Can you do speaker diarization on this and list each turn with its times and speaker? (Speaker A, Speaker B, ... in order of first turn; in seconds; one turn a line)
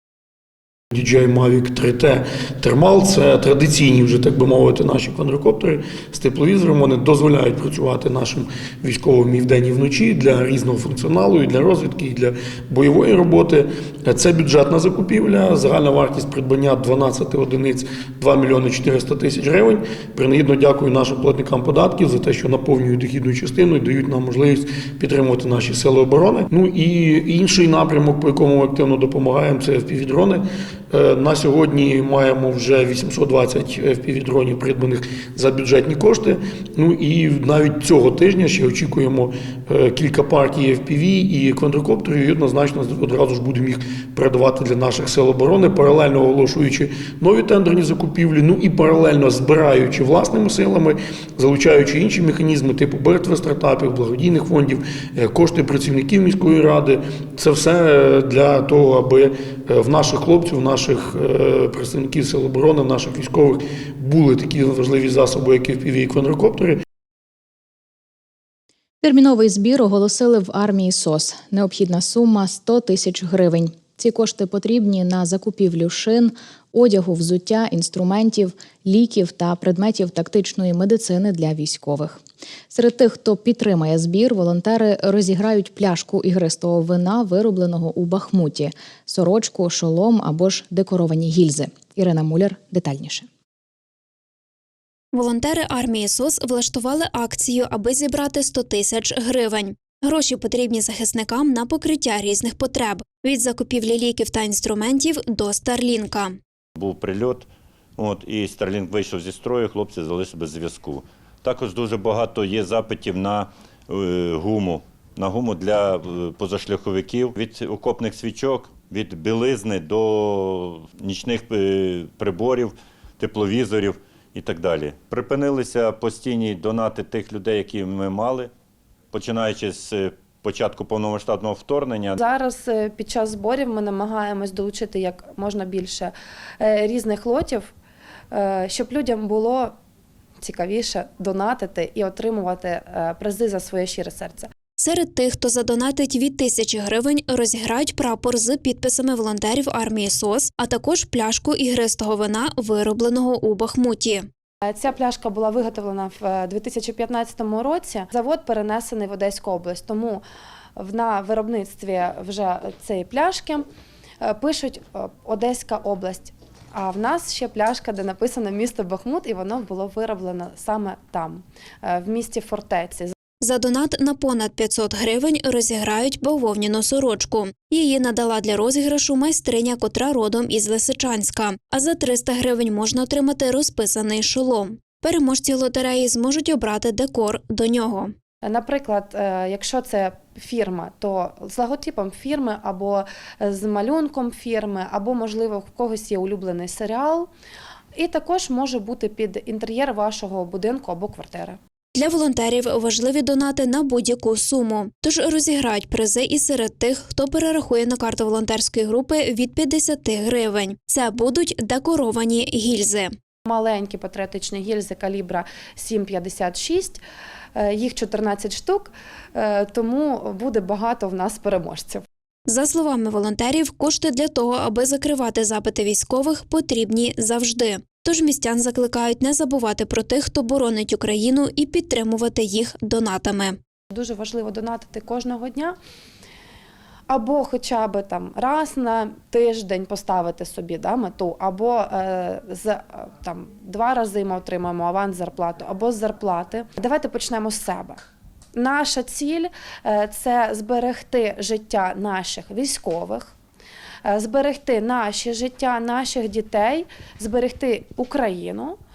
Speaker A: 0.9-66.8
Speaker B: 69.0-82.2
Speaker B: 82.7-93.2
Speaker C: 95.1-106.4
Speaker D: 106.8-107.4
Speaker D: 108.0-110.8
Speaker D: 111.4-111.8
Speaker D: 114.7-117.4
Speaker D: 118.2-119.0
Speaker D: 120.8-121.5
Speaker D: 122.1-122.5
Speaker D: 123.2-123.7
Speaker D: 124.3-125.1
Speaker D: 126.9-127.3
Speaker D: 129.1-131.1
Speaker D: 131.7-132.1
Speaker E: 132.2-137.7
Speaker E: 138.3-139.7
Speaker E: 140.4-144.5
Speaker C: 144.8-154.3
Speaker E: 154.6-160.2
Speaker E: 160.8-163.7
Speaker E: 164.2-173.1
Speaker C: 173.4-188.1
Speaker E: 188.4-197.3
Speaker E: 197.9-201.6
Speaker C: 201.9-213.1
Speaker E: 213.4-217.0
Speaker E: 217.6-222.0
Speaker C: 222.5-233.6
Speaker E: 233.9-235.8
Speaker E: 237.1-248.0
Speaker E: 248.5-253.3
Speaker E: 254.1-258.8